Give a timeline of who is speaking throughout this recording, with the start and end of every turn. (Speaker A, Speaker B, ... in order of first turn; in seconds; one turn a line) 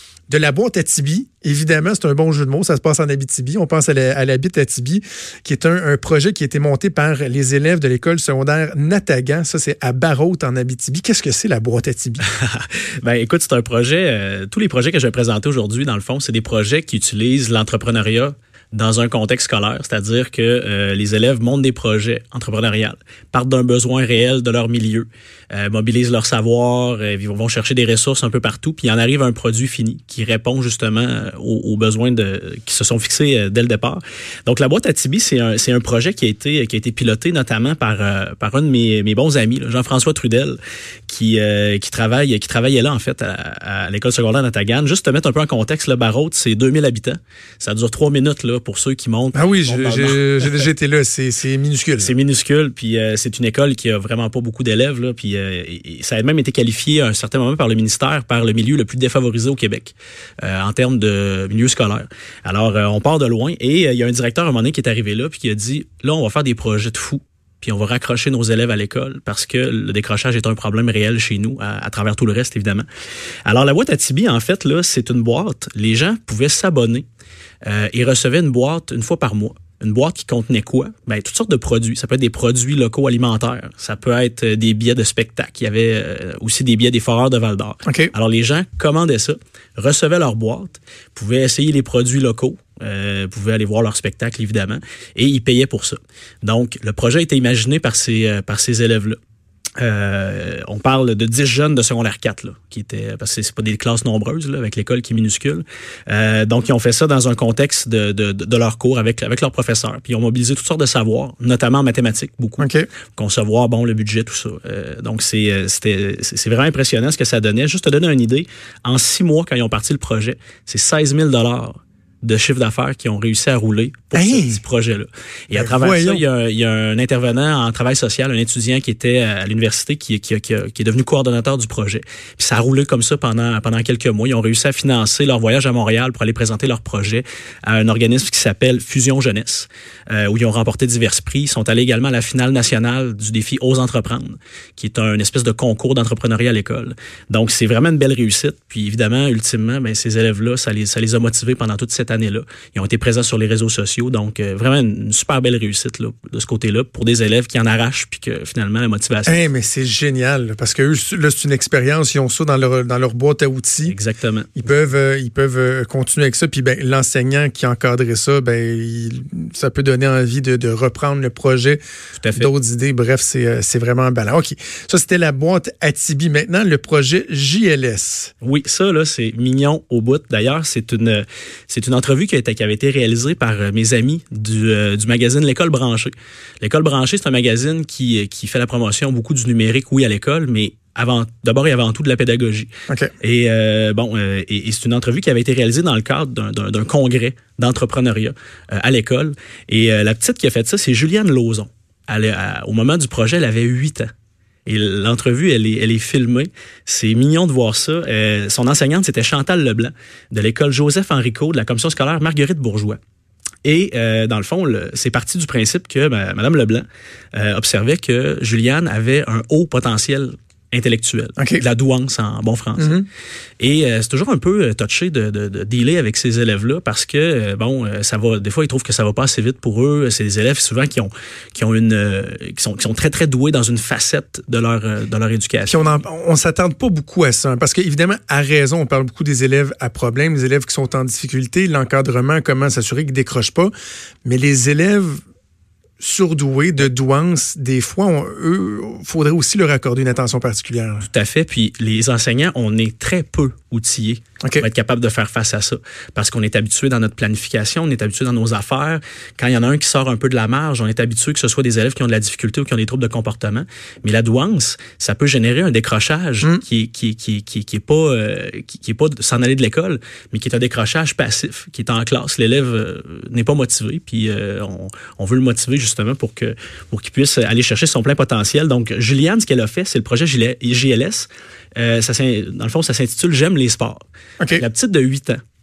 Speaker A: 0.3-12.2
Speaker B: 12.3-50.7
Speaker A: 49.3-52.1
Speaker B: 52.0-72.8
Speaker B: 73.5-77.0
Speaker B: 77.6-99.2
Speaker A: 87.8-88.1
Speaker B: 99.8-159.4
Speaker A: 112.6-112.9
Speaker A: 124.1-124.6
Speaker A: 125.5-126.2
Speaker A: 159.2-163.9
Speaker B: 163.8-164.7
Speaker A: 164.6-171.8
Speaker B: 172.2-172.5
Speaker A: 172.3-178.3
Speaker B: 178.4-192.7
Speaker B: 193.2-204.1
Speaker B: 204.7-213.0
Speaker B: 213.6-223.0
Speaker A: 221.4-221.6
Speaker A: 222.8-223.1
Speaker B: 223.6-235.9
Speaker A: 235.7-243.7
Speaker A: 244.2-245.2
Speaker A: 246.0-251.1
Speaker B: 251.0-284.0
Speaker B: 284.5-285.4